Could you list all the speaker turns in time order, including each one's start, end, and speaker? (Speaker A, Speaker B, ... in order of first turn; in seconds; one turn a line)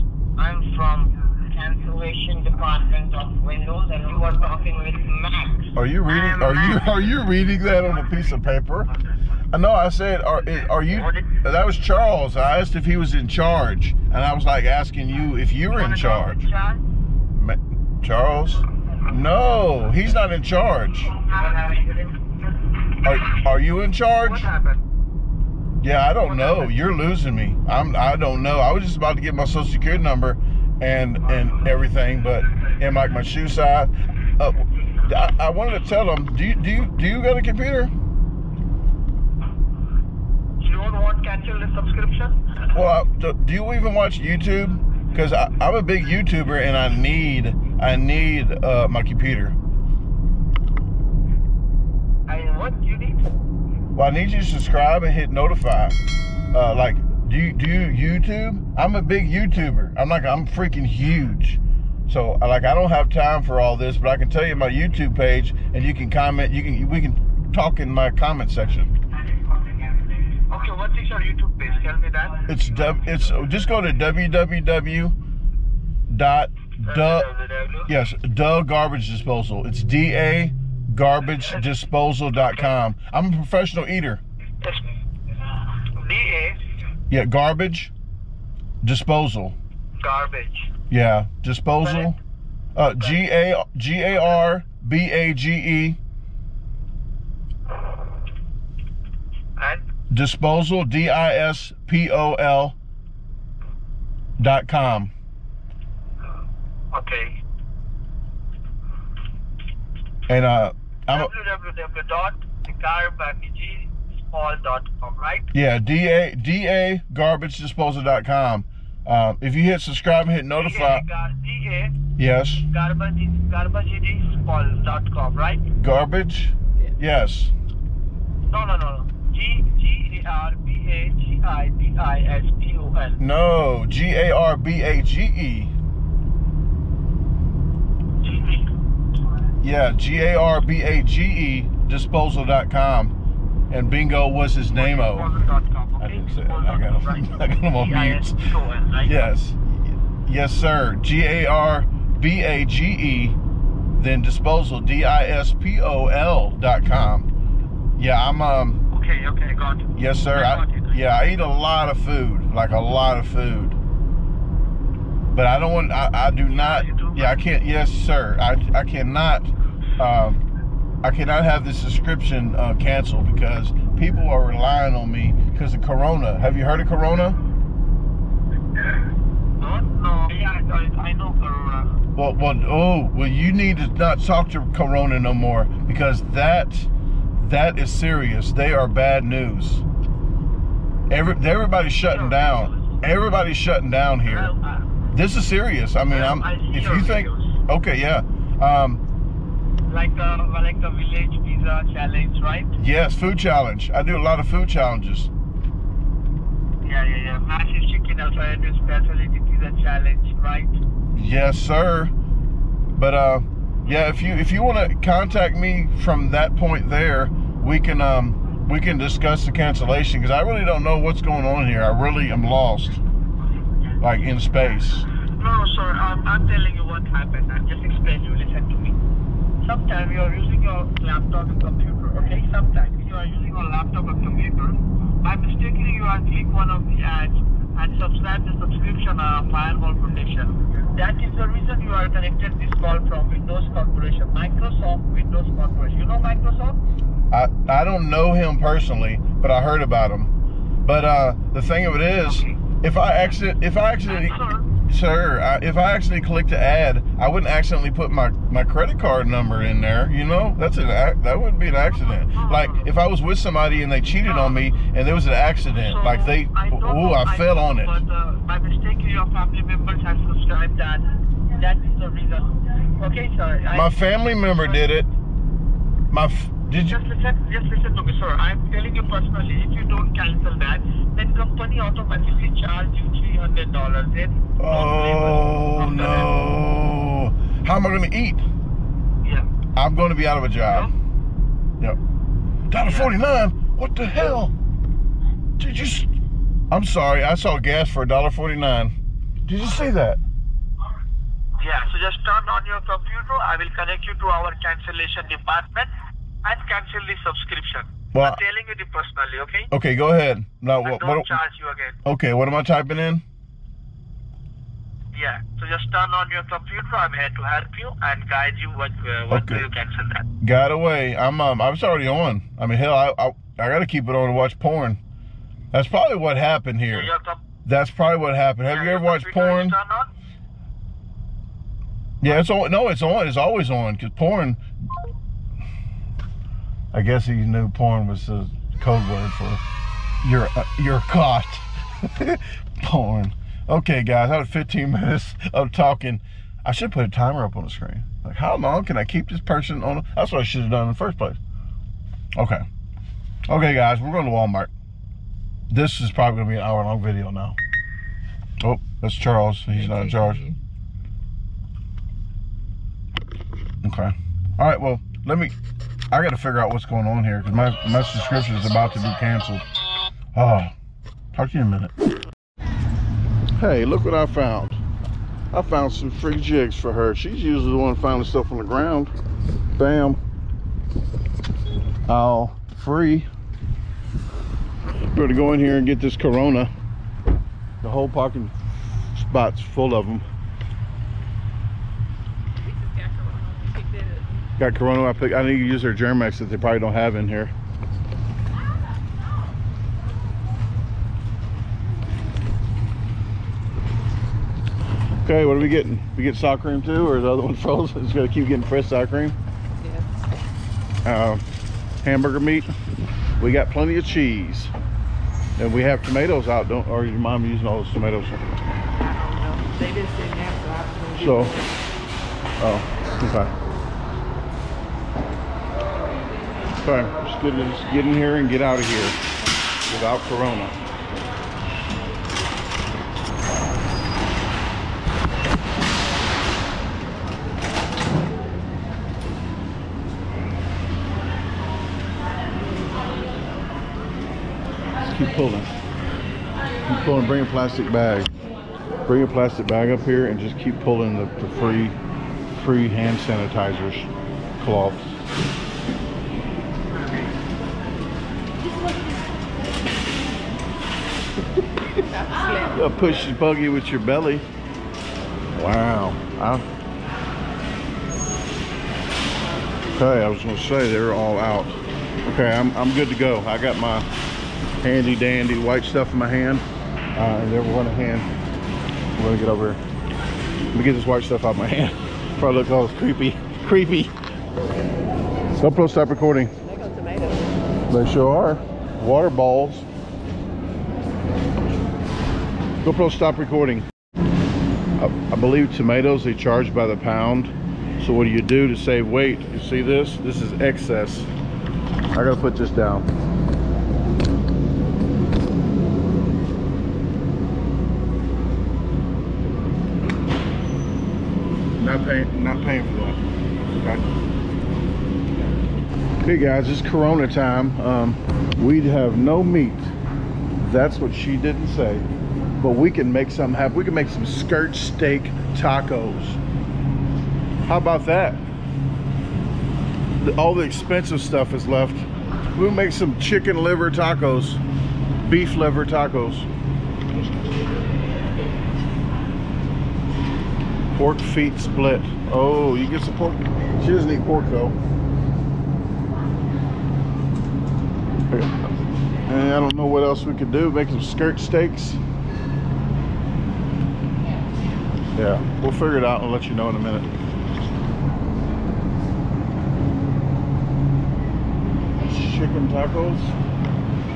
Speaker A: 0.4-7.0
Speaker B: 5.8-8.9
Speaker B: 9.5-16.4
Speaker A: 10.9-11.3
Speaker A: 15.7-16.8
Speaker B: 17.3-21.1
Speaker A: 21.2-22.1
Speaker B: 23.0-24.4
Speaker A: 24.2-24.8
Speaker B: 25.8-37.9
Speaker A: 26.2-26.7
Speaker A: 40.6-42.4
Speaker B: 42.7-49.5
Speaker A: 52.3-53.2
Speaker B: 54.0-56.0
Speaker B: 56.5-68.9
Speaker A: 70.5-72.5
Speaker B: 72.5-75.2
Speaker B: 76.1-77.3
Speaker A: 76.9-77.9
Speaker B: 77.9-84.2
Speaker A: 86.0-86.6
Speaker B: 87.1-87.9
Speaker B: 88.8-89.6
Speaker A: 90.0-90.7
Speaker B: 90.9-92.2
Speaker A: 91.8-92.1
Speaker B: 92.8-96.0
Speaker B: 100.1-102.8
Speaker B: 104.4-105.1
Speaker A: 106.9-107.4
Speaker B: 110.3-111.3
Speaker A: 111.1-115.5
Speaker B: 115.5-121.0
Speaker A: 120.6-122.0
Speaker B: 122.2-122.7
Speaker A: 122.7-125.6
Speaker B: 125.8-127.5
Speaker A: 128.5-133.2
Speaker B: 133.2-135.7
Speaker A: 138.2-138.7
Speaker B: 139.6-143.1
Speaker B: 143.7-145.3
Speaker A: 144.7-149.1
Speaker B: 146.0-148.4
Speaker B: 149.0-153.4
Speaker B: 154.0-157.3
Speaker B: 158.0-158.8
Speaker A: 158.9-160.9
Speaker B: 160.0-163.8
Speaker B: 165.3-170.4
Speaker A: 166.6-167.4
Speaker B: 171.0-177.4
Speaker A: 179.6-182.0
Speaker B: 182.2-189.8
Speaker B: 191.1-194.5
Speaker A: 192.0-192.9
Speaker A: 194.2-194.8
Speaker B: 195.1-199.0
Speaker A: 196.1-197.5
Speaker A: 199.9-202.7
Speaker B: 202.8-205.3
Speaker A: 206.8-210.8
Speaker B: 211.1-212.1
Speaker B: 212.9-223.0
Speaker B: 224.0-225.1
Speaker A: 225.4-229.0
Speaker A: 229.6-246.8
Speaker B: 247.3-250.3
Speaker B: 250.8-268.0
Speaker A: 252.3-252.5
Speaker A: 254.1-254.7
Speaker A: 262.2-262.9
Speaker A: 264.2-264.6
Speaker A: 265.7-273.9
Speaker B: 273.7-275.1
Speaker A: 274.6-274.8
Speaker B: 276.1-277.0
Speaker A: 276.9-286.3
Speaker B: 284.6-288.4
Speaker B: 289.8-290.9
Speaker B: 292.7-294.5
Speaker A: 292.8-293.1
Speaker B: 295.6-296.1
Speaker B: 296.7-298.9
Speaker B: 299.4-300.2
Speaker A: 301.6-305.9
Speaker A: 306.4-309.7
Speaker B: 308.1-308.4
Speaker B: 309.7-311.3
Speaker A: 310.9-311.9
Speaker B: 312.1-313.2
Speaker A: 315.1-320.3
Speaker B: 319.3-319.6
Speaker B: 320.4-325.0
Speaker B: 325.7-327.1
Speaker A: 326.9-327.4
Speaker B: 327.6-329.8
Speaker A: 328.7-330.1
Speaker B: 332.2-334.6
Speaker B: 336.9-339.6
Speaker B: 340.2-351.4
Speaker B: 352.4-352.7
Speaker B: 353.5-354.7
Speaker B: 355.7-357.6
Speaker B: 358.6-360.4
Speaker C: 359.7-360.6
Speaker B: 363.8-365.6
Speaker B: 366.1-369.6
Speaker B: 370.3-370.7
Speaker B: 371.3-371.9
Speaker B: 373.6-374.8
Speaker B: 375.5-379.1
Speaker B: 379.8-380.2
Speaker B: 382.1-383.3
Speaker B: 385.1-386.7
Speaker B: 387.8-388.5
Speaker B: 389.1-390.2
Speaker C: 392.6-394.4
Speaker B: 394.6-397.5
Speaker B: 405.2-409.4
Speaker C: 409.8-410.1
Speaker B: 411.1-411.4
Speaker B: 412.0-412.7
Speaker B: 413.4-414.7
Speaker B: 415.6-418.5
Speaker C: 418.9-421.9
Speaker B: 421.2-421.6
Speaker B: 422.6-423.5
Speaker B: 426.8-429.2
Speaker B: 429.9-430.8
Speaker B: 445.1-445.7
Speaker B: 446.9-448.3
Speaker B: 449.1-452.0
Speaker B: 452.5-455.1
Speaker C: 458.8-459.1
Speaker C: 462.1-463.3
Speaker B: 462.7-464.4
Speaker B: 465.5-466.6
Speaker B: 469.9-474.1
Speaker B: 474.8-478.3
Speaker B: 479.2-479.8
Speaker B: 480.7-484.1
Speaker B: 485.6-486.5
Speaker C: 486.6-487.7
Speaker B: 487.9-489.9
Speaker B: 492.8-493.9
Speaker B: 495.0-501.3
Speaker B: 502.1-503.1
Speaker B: 511.8-514.0
Speaker B: 516.2-519.9
Speaker B: 520.6-522.0
Speaker B: 522.6-526.4
Speaker B: 527.7-528.5
Speaker B: 530.2-534.6
Speaker B: 535.2-536.5
Speaker B: 540.9-544.8
Speaker B: 548.3-548.7
Speaker B: 549.3-552.0
Speaker B: 555.1-557.1
Speaker B: 562.0-563.3